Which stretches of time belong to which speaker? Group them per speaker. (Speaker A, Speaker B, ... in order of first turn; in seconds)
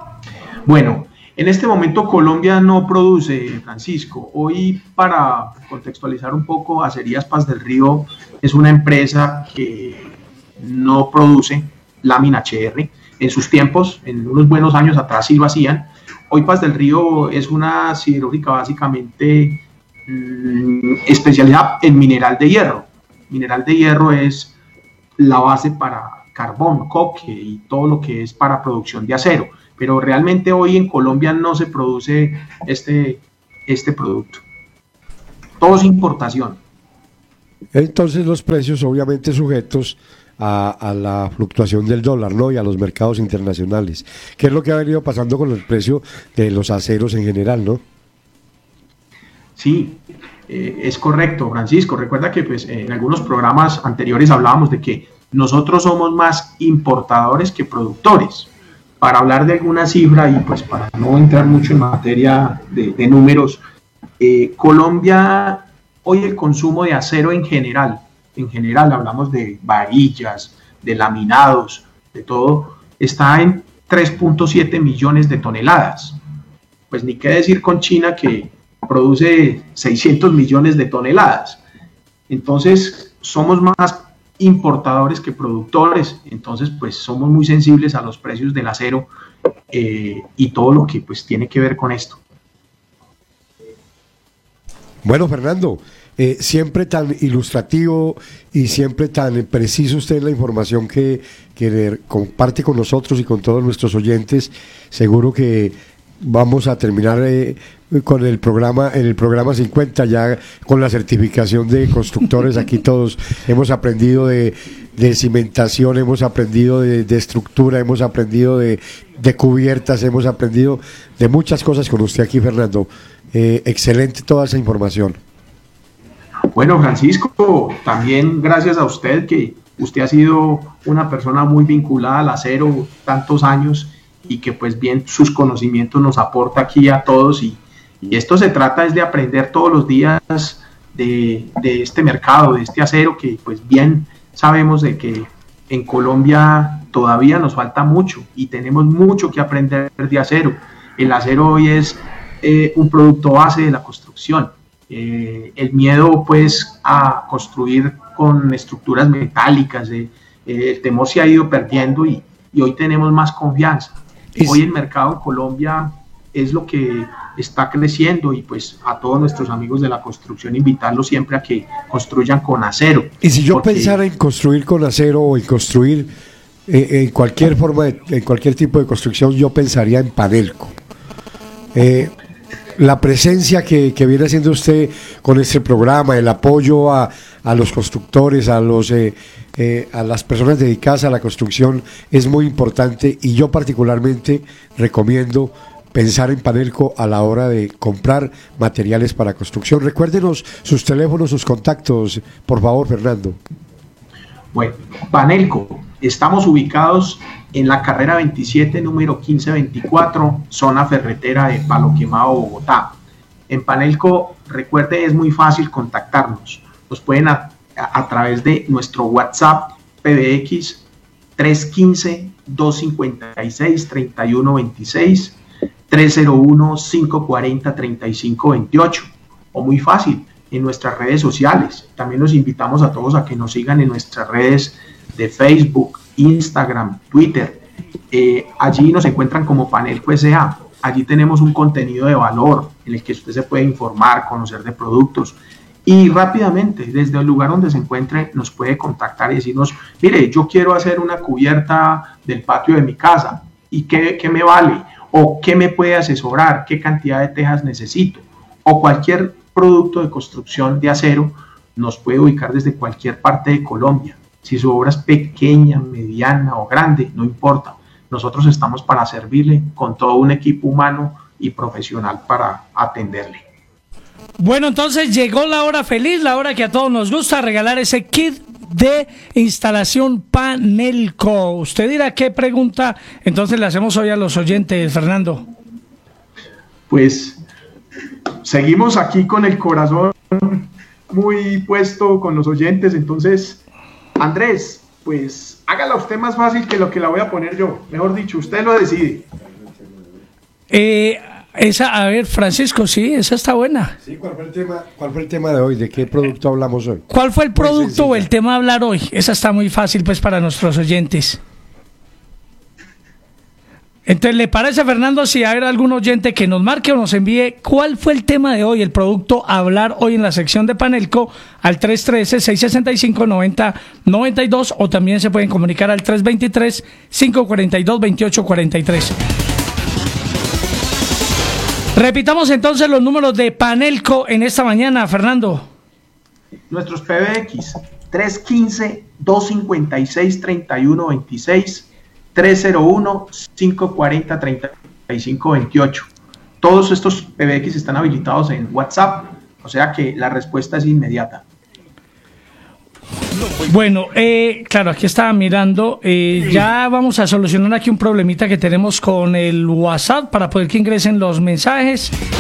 Speaker A: 0.7-24.6, 25.2-34.4, 35.6-36.6, 49.6-63.6, 64.2-76.2, 76.9-81.6, 82.3-89.1, 89.7-92.2, 126.5-174.0, 204.5-213.0, 213.5-220.9, 221.4-273.4, 286.9-287.4, 288.4-293.6, 294.2-299.3, 336.7-351.5
Speaker B: 37.7-47.8, 95.0-125.2, 164.3-164.6, 173.2-176.1, 176.7-180.7, 181.8-182.1, 182.8-203.4, 299.5-300.2, 304.0-308.3
Speaker C: 274.4-285.4, 300.7-303.9, 307.1-311.4, 314.1-329.1, 332.0-335.7, 353.6-362.1